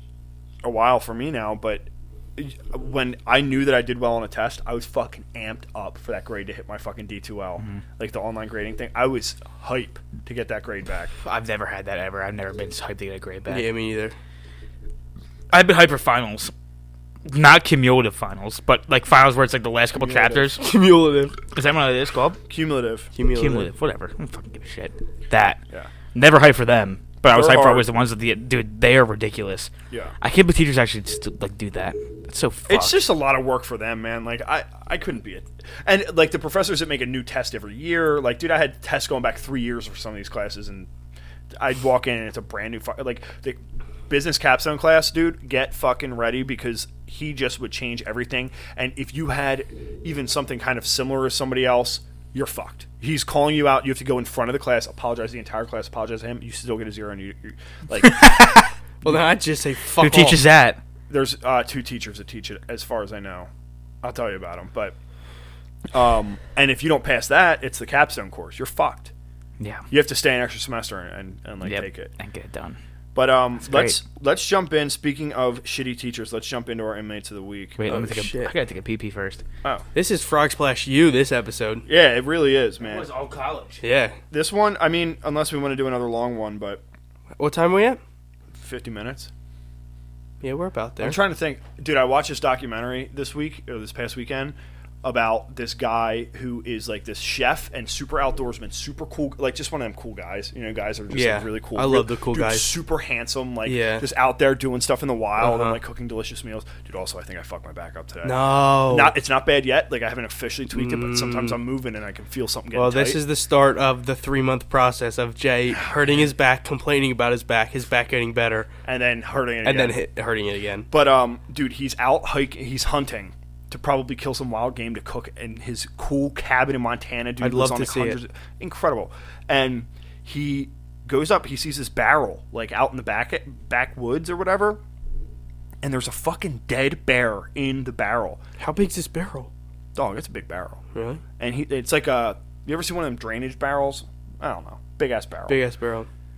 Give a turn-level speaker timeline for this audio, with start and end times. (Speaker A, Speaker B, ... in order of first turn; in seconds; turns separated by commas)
Speaker A: 0.6-11.1, Speaker B: 11.2-13.7, Speaker C: 13.5-14.1, Speaker B: 15.5-16.5, Speaker B: 17.2-20.6, Speaker A: 20.0-20.6, Speaker C: 20.6-21.4, Speaker B: 21.5-22.4, Speaker A: 22.5-23.1, Speaker C: 23.1-23.7, Speaker B: 23.3-25.6, Speaker B: 26.1-29.7, Speaker A: 27.3-27.9, Speaker A: 29.9-30.1, Speaker B: 30.2-33.0, Speaker A: 32.7-40.9, Speaker A: 41.6-58.3, Speaker B: 58.0-58.7, Speaker C: 59.0-60.4, Speaker B: 60.0-60.8, Speaker A: 61.1-63.5, Speaker A: 64.0-64.9, Speaker A: 65.9-69.1, Speaker B: 69.6-69.8, Speaker A: 69.9-72.1, Speaker B: 71.6-72.8, Speaker A: 73.1-77.8, Speaker B: 73.6-74.0, Speaker B: 77.8-79.4, Speaker C: 77.9-78.5, Speaker C: 79.9-81.8, Speaker A: 81.8-83.1, Speaker B: 82.8-83.8, Speaker C: 83.8-84.2, Speaker A: 84.3-86.8, Speaker C: 87.4-88.0, Speaker A: 88.5-89.3, Speaker C: 90.4-91.2, Speaker A: 91.0-113.2, Speaker C: 101.1-102.7, Speaker C: 103.6-104.0, Speaker C: 105.4-105.8, Speaker C: 108.2-109.2, Speaker C: 110.7-111.6, Speaker C: 112.7-118.7, Speaker A: 118.8-120.0, Speaker C: 119.6-120.9, Speaker A: 120.9-134.8, Speaker C: 127.4-128.2, Speaker A: 135.8-138.4, Speaker C: 138.6-139.5, Speaker A: 139.9-140.8, Speaker C: 140.9-141.2, Speaker A: 141.4-145.6, Speaker C: 145.5-146.1